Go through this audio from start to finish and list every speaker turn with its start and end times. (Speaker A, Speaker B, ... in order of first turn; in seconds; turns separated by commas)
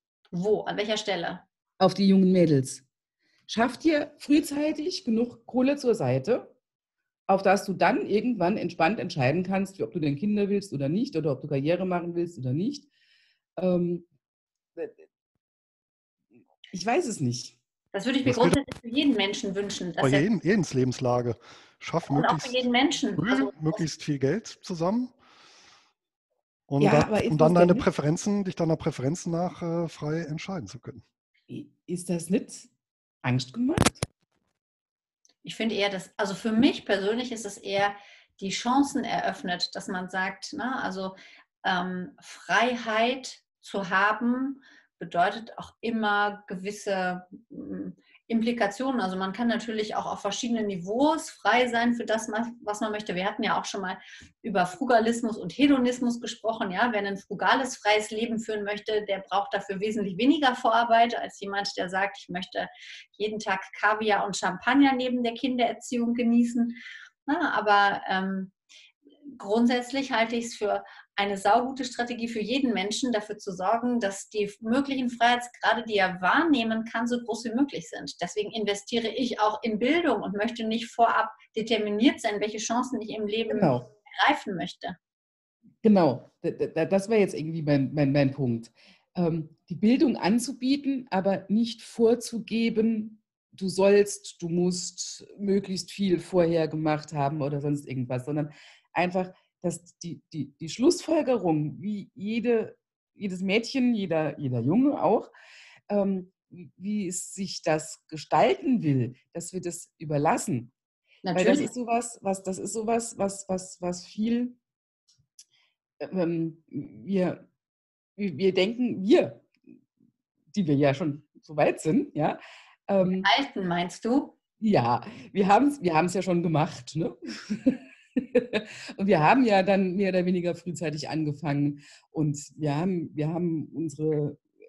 Speaker A: 0.3-1.4, Speaker B: 1.8-2.8, Speaker B: 3.5-6.5, Speaker B: 7.3-12.9, Speaker B: 13.6-14.1, Speaker B: 16.7-17.6, Speaker A: 17.9-20.2, Speaker C: 18.2-18.6, Speaker C: 20.0-22.6, Speaker A: 22.1-23.8, Speaker C: 23.2-25.1, Speaker C: 26.7-31.0, Speaker B: 26.8-27.9, Speaker B: 31.5-32.7, Speaker B: 33.2-34.0, Speaker A: 35.4-68.5, Speaker A: 69.3-85.0, Speaker B: 83.5-83.8, Speaker B: 85.8-105.3, Speaker B: 105.9-110.7, Speaker A: 111.2-111.7, Speaker B: 111.3-114.6, Speaker B: 116.0-117.4, Speaker B: 118.2-119.5, Speaker B: 120.5-123.3, Speaker A: 123.1-124.4, Speaker B: 124.6-134.4